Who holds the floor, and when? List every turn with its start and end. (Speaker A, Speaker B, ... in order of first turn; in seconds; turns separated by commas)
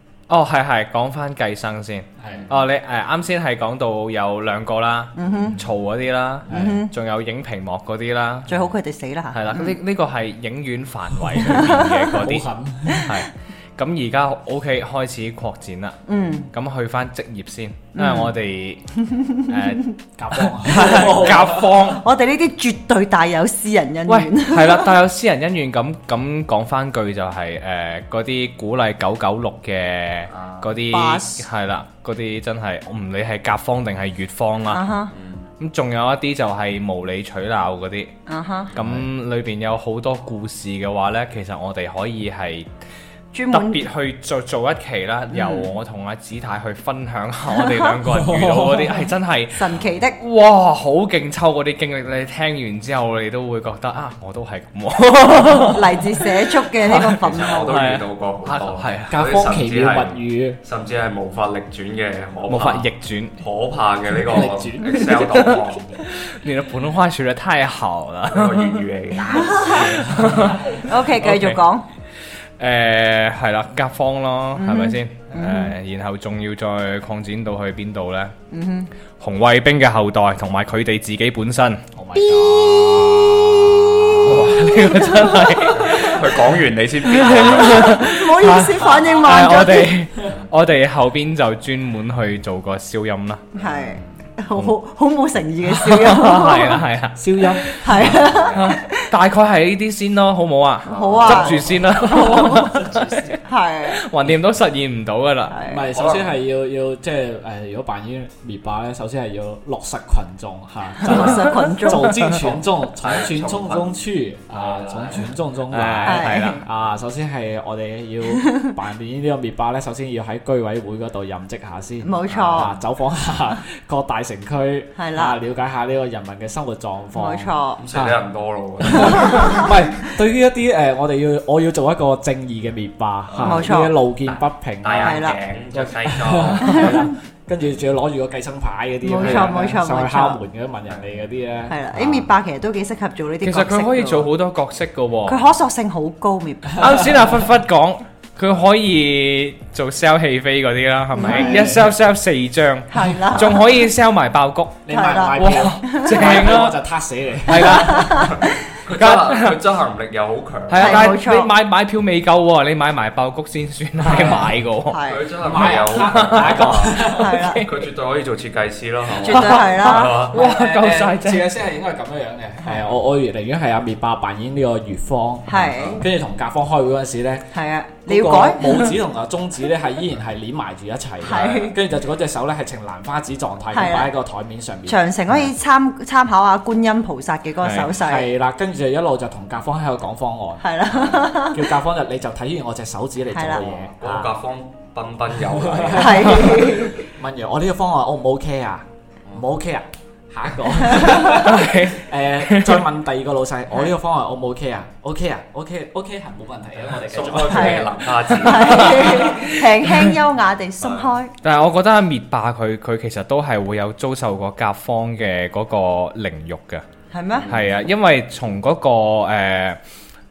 Speaker A: 0.3-8.5, Speaker B: 2.2-2.5, Speaker C: 5.1-5.6, Speaker B: 6.5-6.8, Speaker C: 6.5-6.9, Speaker C: 8.5-9.8, Speaker A: 9.3-16.0, Speaker B: 11.4-13.1, Speaker C: 11.5-12.0, Speaker C: 12.9-13.2, Speaker C: 16.1-16.5, Speaker A: 16.5-18.8, Speaker C: 17.9-18.3, Speaker C: 19.0-19.8, Speaker A: 19.4-22.0, Speaker B: 20.2-21.6, Speaker C: 20.8-24.9, Speaker A: 24.1-34.8, Speaker D: 30.3-30.8, Speaker C: 30.9-31.4, Speaker C: 34.7-35.1, Speaker D: 35.1-35.4, Speaker A: 35.6-38.1, Speaker C: 38.3-38.7, Speaker A: 38.7-42.7, Speaker B: 38.8-39.0, Speaker C: 43.3-43.8, Speaker A: 43.5-59.1, Speaker C: 45.3-45.7, Speaker C: 47.6-47.9, Speaker B: 48.2-48.8, Speaker C: 49.5-50.2, Speaker C: 55.5-57.8, Speaker D: 57.2-66.0, Speaker B: 59.1-60.6, Speaker A: 62.5-63.3, Speaker B: 64.1-65.6, Speaker A: 65.0-68.8, Speaker D: 68.3-70.2, Speaker C: 69.2-70.0, Speaker A: 69.6-71.6, Speaker B: 70.0-70.5, Speaker C: 70.7-71.8, Speaker A: 72.6-78.3, Speaker C: 74.5-75.7, Speaker C: 78.5-78.9, Speaker A: 79.2-81.8, Speaker B: 81.9-83.1, Speaker C: 82.2-86.3, Speaker A: 84.2-86.2, Speaker D: 85.7-88.0, Speaker A: 87.1-93.4, Speaker C: 87.2-90.0, Speaker C: 93.5-96.8, Speaker D: 93.6-94.0, Speaker A: 95.7-105.6, Speaker B: 97.2-97.8, Speaker C: 97.7-99.1, Speaker D: 97.9-98.8, Speaker C: 100.8-102.8, Speaker D: 100.9-101.9, Speaker B: 102.3-103.3, Speaker C: 103.4-104.0, Speaker C: 105.5-105.9, Speaker B: 105.6-128.2, Speaker D: 105.9-106.3, Speaker C: 111.0-112.2, Speaker A: 111.1-112.1, Speaker D: 112.2-114.0, Speaker D: 114.5-115.3, Speaker A: 115.7-116.6, Speaker C: 116.0-116.7, Speaker C: 118.2-118.8, Speaker C: 122.0-122.7, Speaker D: 122.2-122.7, Speaker C: 125.0-125.3, Speaker C: 127.1-127.8, Speaker D: 127.8-129.7, Speaker B: 128.8-142.0, Speaker C: 128.9-129.7, Speaker D: 133.3-133.7, Speaker C: 133.4-133.9, Speaker D: 134.3-137.1, Speaker C: 135.0-135.4, Speaker C: 136.6-137.1, Speaker C: 139.0-140.4, Speaker D: 139.2-139.5, Speaker C: 141.7-144.3, Speaker D: 141.9-142.3, Speaker A: 143.4-145.4, Speaker C: 145.3-147.1, Speaker A: 146.8-156.8, Speaker C: 151.2-151.8, Speaker B: 151.2-151.9, Speaker C: 152.9-153.7, Speaker B: 154.8-158.1, Speaker C: 154.9-156.4, Speaker A: 157.4-158.3, Speaker C: 157.6-158.6, Speaker D: 158.2-161.1, Speaker A: 158.9-159.6, Speaker A: 160.7-165.0, Speaker C: 160.8-161.5, Speaker B: 164.0-164.5, Speaker C: 164.9-165.3, Speaker D: 165.1-167.1, Speaker B: 165.4-167.3, Speaker A: 165.6-167.7, Speaker C: 167.1-167.6, Speaker D: 167.6-170.4, Speaker C: 169.1-170.3, Speaker A: 169.3-171.4, Speaker B: 170.3-177.5, Speaker C: 175.5-176.1, Speaker D: 175.5-176.0, Speaker C: 177.5-178.9, Speaker B: 178.1-185.5, Speaker C: 181.2-181.8, Speaker C: 183.7-184.1, Speaker C: 184.9-188.3, Speaker A: 187.6-187.9, Speaker B: 187.9-194.3, Speaker C: 190.6-191.7, Speaker C: 193.3-193.7, Speaker D: 193.5-196.7, Speaker B: 195.4-208.1, Speaker C: 195.9-197.0, Speaker C: 200.9-201.4, Speaker A: 201.2-202.8, Speaker D: 207.0-209.4, Speaker C: 207.5-211.3, Speaker A: 208.5-210.0, Speaker B: 208.8-209.3, Speaker D: 210.8-211.1, Speaker A: 211.4-216.8, Speaker C: 217.1-217.5, Speaker D: 217.3-217.7, Speaker A: 217.5-219.8